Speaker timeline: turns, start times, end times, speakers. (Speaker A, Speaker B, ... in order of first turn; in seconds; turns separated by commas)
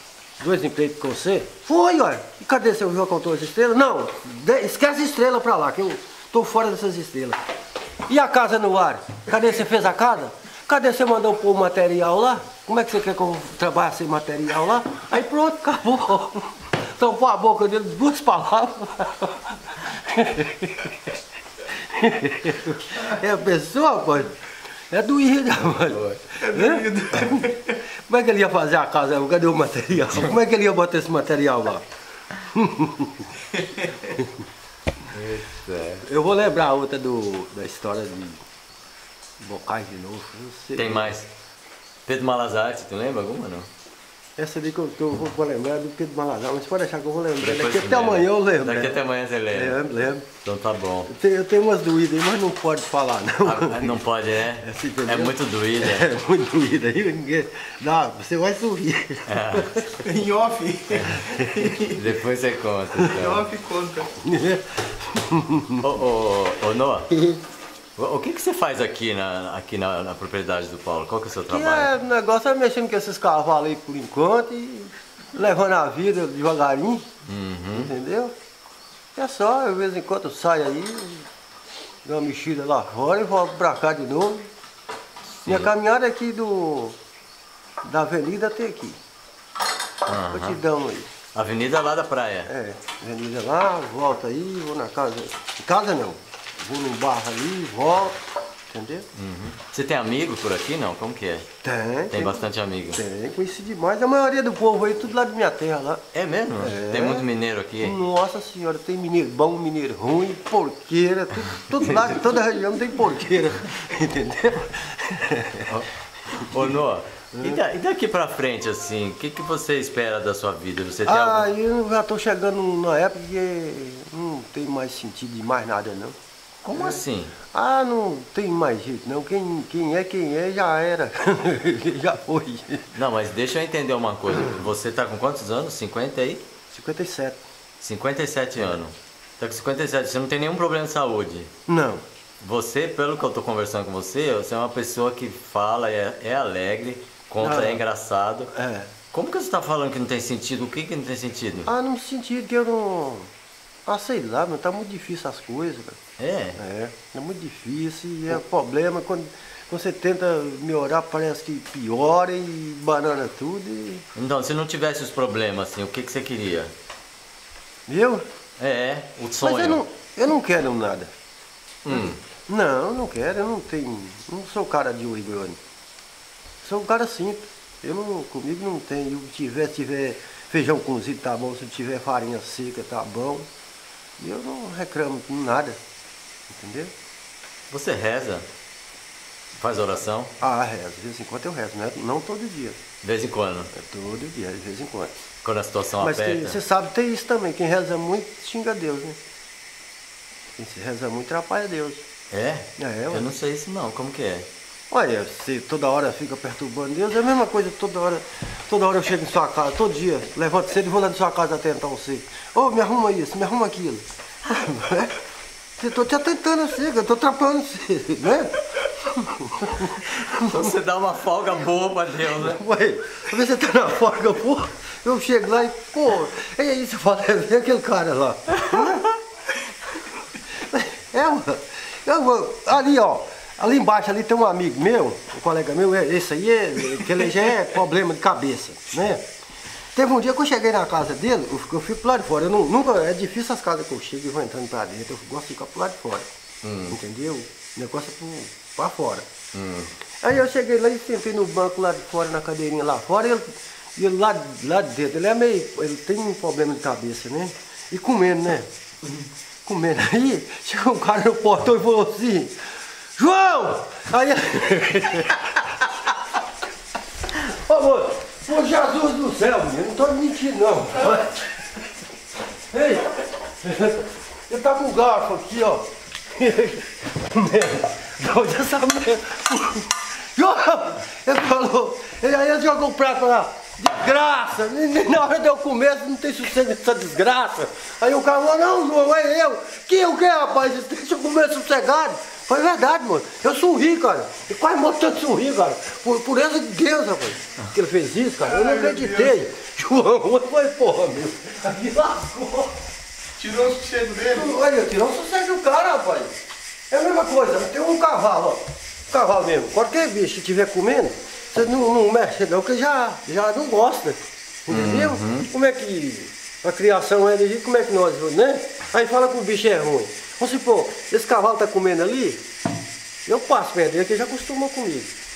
Speaker A: 0.4-7.4, Speaker A: 8.1-21.1, Speaker A: 21.7-33.5, Speaker B: 25.9-26.2, Speaker C: 26.4-27.6, Speaker A: 34.0-34.4, Speaker B: 35.1-36.1, Speaker A: 36.0-38.4, Speaker A: 39.4-41.1, Speaker B: 40.8-41.3, Speaker B: 42.1-43.7, Speaker A: 44.4-50.3, Speaker B: 47.4-49.8, Speaker B: 50.4-51.1, Speaker A: 51.1-59.9, Speaker B: 53.4-56.1, Speaker B: 59.3-59.9, Speaker C: 60.0-62.0, Speaker B: 60.9-61.2, Speaker A: 61.1-61.8, Speaker B: 61.8-63.5, Speaker C: 63.1-64.1, Speaker A: 64.2-65.9, Speaker B: 65.8-67.1, Speaker A: 67.1-67.4, Speaker B: 68.0-71.9, Speaker A: 71.5-77.1, Speaker B: 77.2-77.9, Speaker A: 77.7-78.3, Speaker A: 79.2-81.3, Speaker A: 82.0-84.5, Speaker B: 85.5-85.7, Speaker A: 85.5-87.0, Speaker A: 87.8-89.0, Speaker B: 90.1-90.6, Speaker A: 90.3-91.1, Speaker B: 91.3-92.5, Speaker A: 92.5-99.1, Speaker B: 99.1-101.5, Speaker A: 101.6-106.0, Speaker B: 102.1-103.0, Speaker B: 106.1-108.0, Speaker A: 106.6-107.3, Speaker A: 107.8-116.8, Speaker B: 111.7-112.2, Speaker B: 115.7-121.5, Speaker A: 117.3-117.6, Speaker A: 121.1-126.2, Speaker B: 126.6-127.3, Speaker A: 126.7-127.0, Speaker A: 127.5-132.9, Speaker B: 132.9-136.5, Speaker A: 136.7-137.4, Speaker B: 137.8-141.5, Speaker A: 141.7-142.0, Speaker B: 142.4-148.5, Speaker A: 147.4-147.8, Speaker A: 148.5-148.9, Speaker B: 149.1-151.7, Speaker A: 151.7-153.3, Speaker A: 153.9-156.0, Speaker B: 156.2-156.6, Speaker A: 156.6-164.1, Speaker B: 164.1-166.7, Speaker A: 167.9-168.2, Speaker B: 168.6-169.8, Speaker A: 169.4-171.2, Speaker B: 171.8-172.2, Speaker A: 171.9-175.6, Speaker A: 176.6-183.5, Speaker A: 184.2-185.8, Speaker A: 186.5-186.9, Speaker B: 187.7-188.5, Speaker B: 189.6-190.3, Speaker A: 190.4-192.8, Speaker B: 193.0-193.7, Speaker A: 193.7-195.1, Speaker B: 195.4-196.6, Speaker A: 196.0-199.2, Speaker A: 200.6-202.0, Speaker B: 202.3-204.5, Speaker A: 202.8-203.3, Speaker A: 204.9-215.2, Speaker A: 215.8-220.7, Speaker B: 220.2-222.6, Speaker A: 222.3-229.1, Speaker A: 230.5-239.2, Speaker A: 239.9-246.3, Speaker B: 246.6-247.0, Speaker A: 246.9-249.3, Speaker B: 249.5-249.9, Speaker A: 250.2-262.6, Speaker A: 263.2-265.9, Speaker A: 267.4-271.7, Speaker A: 272.7-302.8, Speaker C: 298.5-299.3, Speaker C: 303.4-304.6, Speaker A: 304.2-306.3, Speaker A: 306.9-322.4, Speaker B: 314.7-315.5, Speaker A: 323.3-325.1